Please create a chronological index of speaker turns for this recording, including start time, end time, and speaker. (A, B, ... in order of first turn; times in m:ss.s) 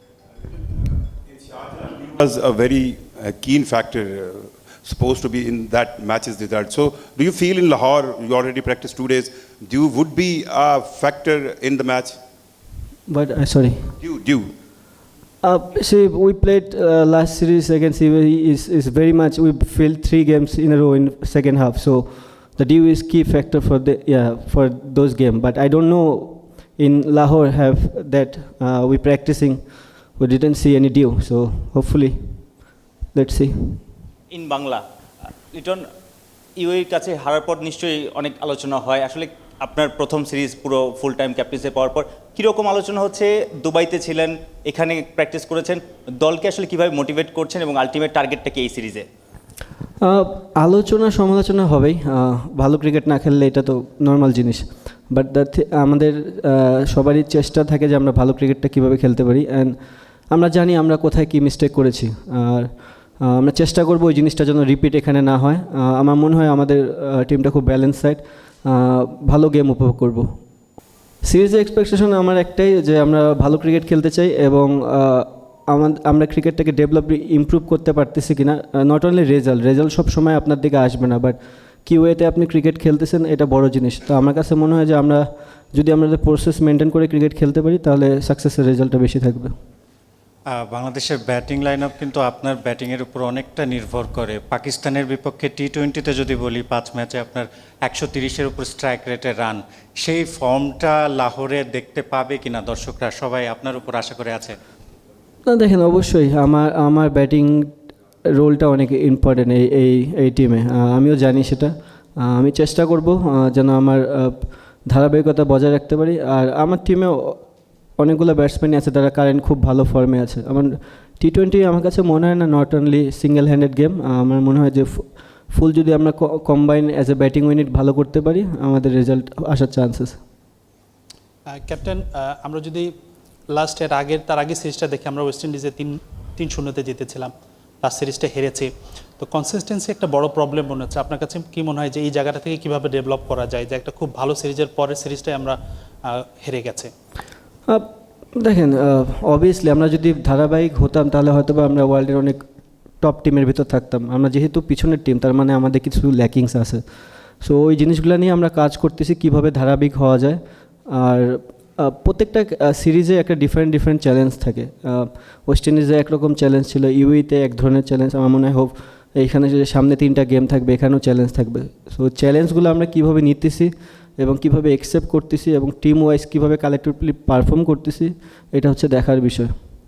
0:01.5-0:12.2 A
0:13.1-0:13.9 B
0:14.0-0:14.5 A
0:15.4-0:32.6 B
0:33.1-0:33.8 B
0:34.3-0:34.8 C
0:35.5-0:35.9 C
0:36.6-0:49.0 C
0:50.0-1:10.3 B
1:11.2-1:29.6 B
1:30.6-1:44.6 D
1:45.5-1:47.8 B
1:48.3-1:57.4 B
1:58.0-2:10.2 B
2:11.6-2:12.9 E
2:13.5-2:17.3 E
2:17.8-2:26.9 E
2:27.7-2:32.4 B
2:33.0-2:36.8 B
2:37.4-2:59.6 B